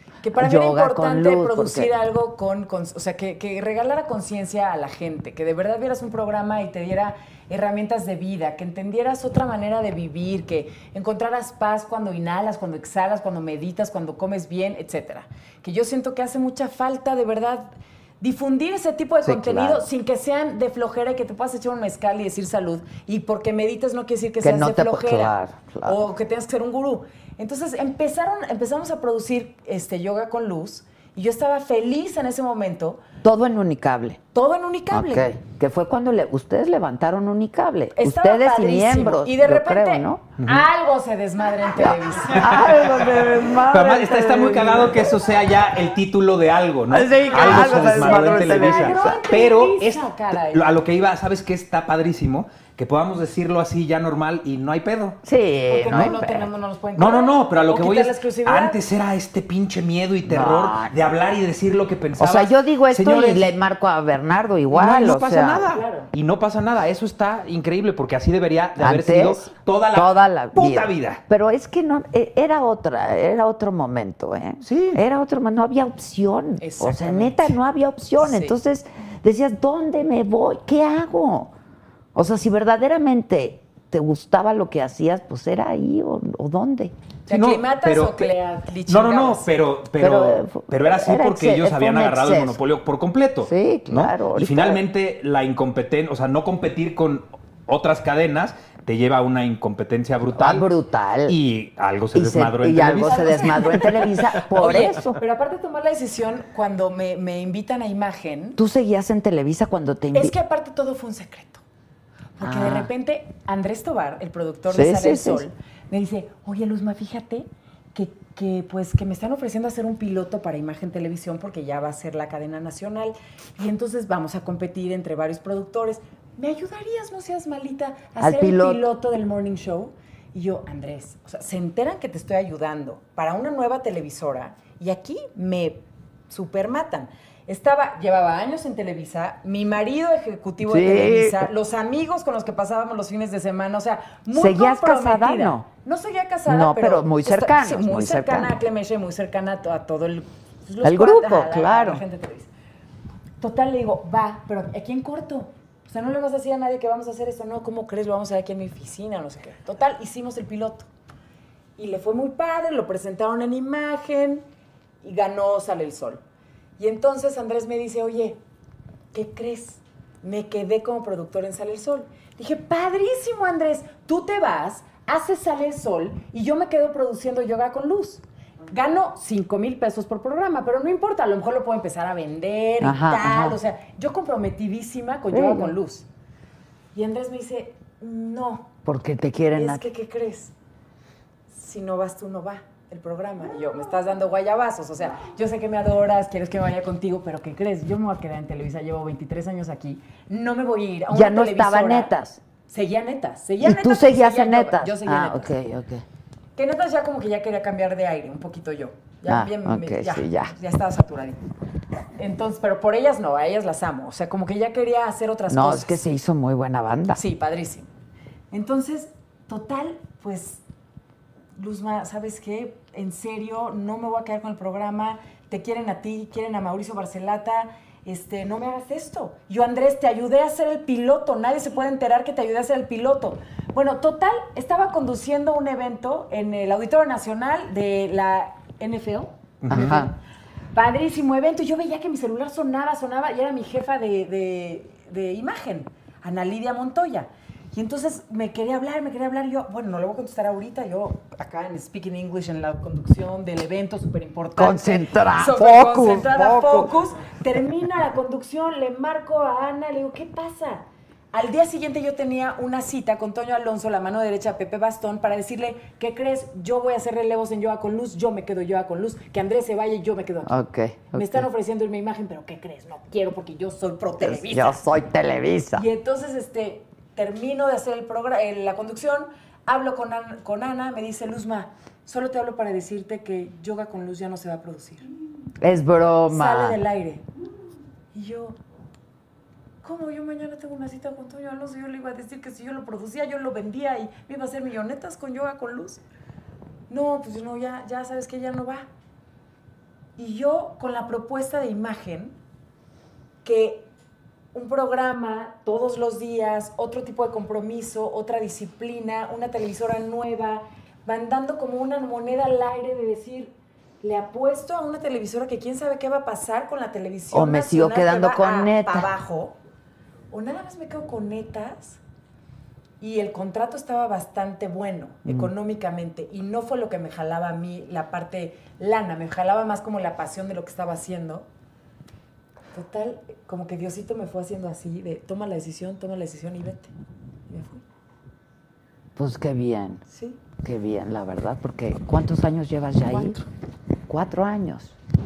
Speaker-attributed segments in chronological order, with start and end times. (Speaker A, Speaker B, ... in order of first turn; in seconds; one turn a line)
Speaker A: 0.2-25.3
Speaker B: 0.3-1.9
Speaker B: 19.2-19.8
Speaker B: 24.4-26.0
Speaker A: 25.8-33.0
Speaker B: 33.2-34.2
Speaker A: 34.3-35.3
Speaker B: 34.9-40.2
Speaker A: 37.9-42.5
Speaker C: 40.4-40.6
Speaker B: 41.8-45.1
Speaker C: 42.4-55.2
Speaker B: 46.9-49.2
Speaker A: 47.3-50.6
Speaker B: 55.2-56.5
Speaker A: 55.7-58.8
Speaker C: 57.0-63.5
Speaker B: 60.2-60.9
Speaker B: 62.2-65.6
Speaker C: 64.7-71.2
Speaker A: 65.7-66.1
Speaker B: 68.8-81.5
Speaker C: 74.6-75.0
Speaker A: 76.6-77.6
Speaker A: 78.2-78.6
Speaker B: 82.1-87.0
Speaker A: 87.3-89.5
Speaker C: 87.3-88.3
Speaker C: 88.9-100.7
Speaker B: 90.0-92.6
Speaker B: 93.4-94.8
Speaker B: 100.3-101.4
Speaker C: 101.2-103.7
Speaker B: 102.1-105.2
Speaker A: 103.0-108.6
Speaker B: 108.6-110.3
Speaker A: 110.1-111.6
Speaker A: 112.4-152.5
Speaker B: 112.4-112.9
Speaker B: 114.7-115.5
Speaker B: 128.2-128.8
Speaker B: 140.6-141.5
Speaker B: 144.3-145.7
Speaker B: 146.5-148.5
Speaker B: 150.8-152.0
Speaker A: 153.4-160.9
Speaker A: 161.8-164.4
Speaker A: 165.0-166.2
Speaker A: 166.8-168.4
Speaker A: 169.1-186.1
Speaker B: 182.8-183.6
Speaker B: 185.3-185.7
Speaker A: 186.9-188.7
Speaker B: 188.8-189.8
Speaker A: 189.5-190.5
Speaker A: 191.5-202.1
Speaker B: 201.1-202.4
Speaker A: 202.7-205.5
Speaker B: 203.6-206.0
Speaker A: 206.6-211.4
Speaker B: 209.3-210.5
Speaker A: 212.2-216.0
Speaker B: 215.5-217.2
Speaker A: 217.1-217.9
Speaker A: 218.5-220.6
Speaker A: 221.5-240.1
Speaker C: 239.6-240.0
Speaker B: 239.7-240.1
Speaker A: 240.7-270.6
Speaker B: 254.6-256.9
Speaker B: 270.4-271.4
Speaker A: 271.1-274.8
Speaker B: 274.2-275.8
Speaker A: 275.8-285.1
Speaker B: 285.6-286.8
Speaker A: 286.3-287.2
Speaker A: 288.1-288.6
Speaker A: 289.8-296.0
Speaker A: 296.9-298.9
Speaker A: 300.2-302.3
Speaker A: 303.4-303.9
Speaker A: 304.5-319.6
Speaker B: 317.3-319.1
Speaker A: 320.3-322.0
Speaker A: 323.0-331.5
Speaker A: 332.7-336.9
Speaker A: 337.5-337.8
Speaker B: 339.1-340.0
Speaker A: 340.1-340.4
Speaker B: 340.6-343.4
Speaker A: 343.0-343.4
Speaker B: 344.1-344.9